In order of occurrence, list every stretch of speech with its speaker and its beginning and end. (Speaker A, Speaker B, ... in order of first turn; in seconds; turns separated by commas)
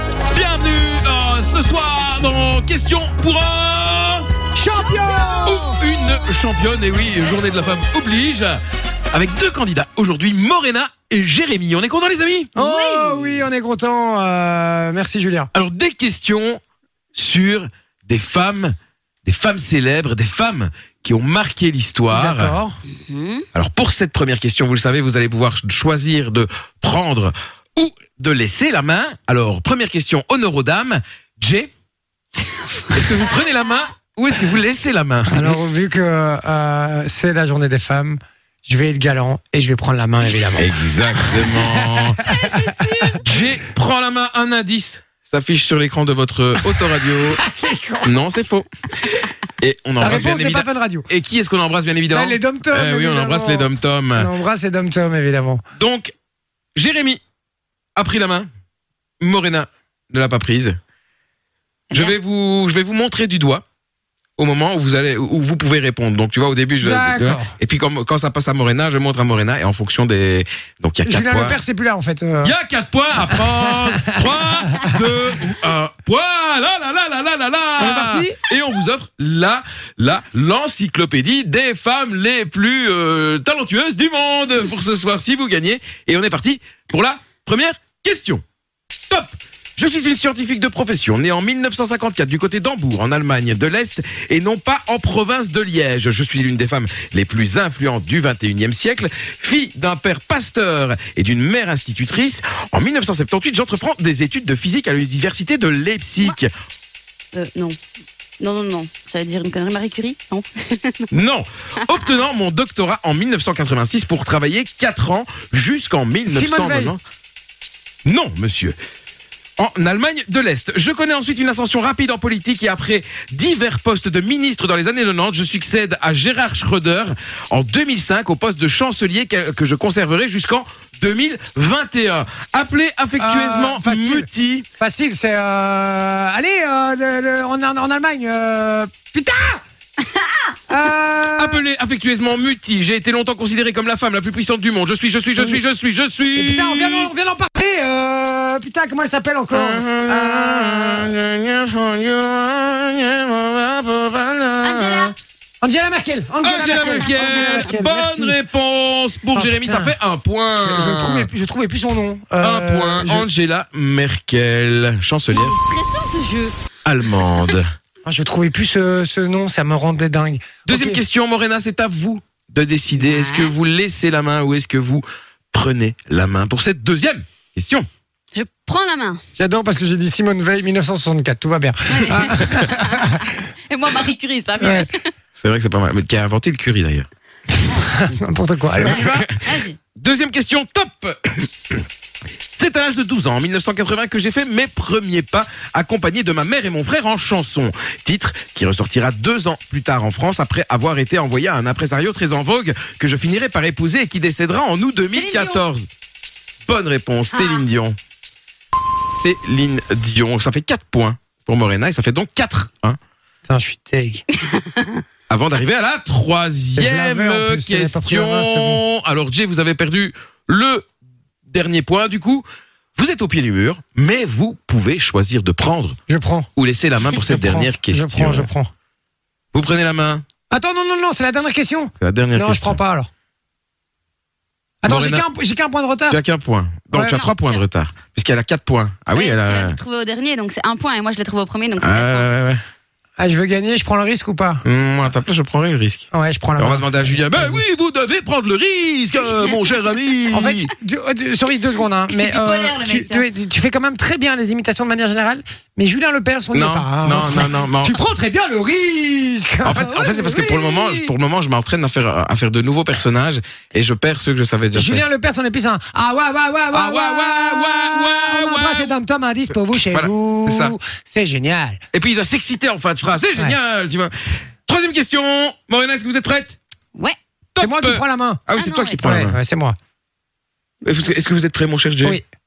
Speaker A: 0.3-4.2, Speaker B: 4.5-5.8, Speaker C: 4.9-5.3, Speaker A: 5.4-8.6, Speaker A: 9.1-12.5, Speaker C: 12.6-13.4, Speaker B: 12.6-15.5, Speaker A: 15.5-16.6, Speaker A: 17.1-18.7, Speaker A: 19.2-22.6, Speaker B: 22.1-22.8, Speaker C: 22.9-23.4, Speaker A: 23.5-31.7, Speaker A: 32.9-35.6, Speaker B: 35.3-43.2, Speaker A: 40.5-42.2, Speaker C: 42.3-43.2, Speaker A: 43.2-47.4, Speaker B: 46.7-48.1, Speaker A: 48.0-48.6, Speaker A: 49.6-54.3, Speaker B: 50.0-51.1, Speaker B: 52.1-55.6, Speaker A: 55.8-56.1, Speaker A: 56.7-57.2, Speaker A: 58.0-58.5, Speaker A: 59.2-60.8, Speaker C: 61.9-62.1, Speaker A: 61.9-63.6, Speaker A: 64.4-71.6, Speaker B: 66.8-67.5, Speaker B: 71.0-72.5, Speaker A: 72.4-88.4, Speaker B: 73.2-74.2, Speaker B: 77.8-78.4, Speaker A: 89.1-106.5, Speaker C: 107.3-107.8, Speaker C: 108.4-111.1, Speaker A: 111.1-117.0, Speaker B: 116.3-116.9, Speaker A: 118.0-118.8, Speaker A: 119.6-134.7, Speaker B: 133.2-134.3, Speaker B: 134.8-139.6, Speaker C: 140.2-140.4, Speaker B: 140.7-141.6, Speaker A: 141.4-147.1, Speaker B: 146.3-151.1, Speaker A: 149.5-155.1, Speaker C: 154.6-155.1, Speaker B: 155.6-158.4, Speaker A: 156.4-161.3, Speaker C: 156.8-157.7, Speaker B: 159.3-159.9, Speaker B: 160.6-163.2, Speaker A: 162.4-165.6, Speaker C: 165.3-166.5, Speaker A: 166.8-167.7, Speaker B: 168.0-171.0, Speaker A: 170.7-177.9, Speaker C: 172.9-173.5, Speaker C: 178.3-179.2, Speaker B: 179.3-183.2, Speaker C: 181.9-185.1, Speaker B: 184.6-184.9, Speaker A: 185.4-187.1, Speaker B: 187.8-189.2, Speaker A: 188.8-189.4, Speaker C: 188.8-189.8, Speaker A: 189.9-191.8, Speaker A: 192.5-205.8, Speaker C: 205.1-205.6, Speaker A: 206.7-207.9, Speaker C: 207.3-207.6, Speaker A: 209.1-213.0, Speaker B: 213.4-214.2, Speaker C: 214.5-214.9, Speaker A: 215.3-220.8, Speaker B: 216.7-218.8, Speaker A: 221.5-222.4, Speaker A: 222.9-226.0, Speaker B: 226.1-226.5, Speaker A: 226.6-228.5, Speaker B: 227.3-228.7, Speaker A: 229.5-230.2, Speaker B: 230.5-233.1, Speaker A: 232.0-232.8, Speaker B: 234.8-236.2, Speaker A: 234.8-235.2, Speaker A: 236.1-239.8, Speaker B: 236.9-237.2, Speaker C: 237.1-237.6, Speaker C: 239.1-242.3, Speaker A: 241.8-242.6, Speaker B: 243.2-244.6, Speaker A: 244.6-250.7, Speaker B: 246.1-247.6, Speaker B: 250.3-259.9, Speaker C: 252.1-253.3, Speaker A: 256.5-258.0, Speaker A: 259.6-265.0, Speaker C: 259.8-261.1, Speaker B: 264.7-271.8, Speaker A: 266.7-268.9, Speaker A: 269.7-270.8, Speaker A: 271.9-274.1, Speaker A: 274.6-276.6, Speaker A: 277.5-279.4, Speaker B: 277.6-278.4, Speaker C: 278.5-279.0, Speaker B: 279.0-279.8, Speaker A: 280.8-282.2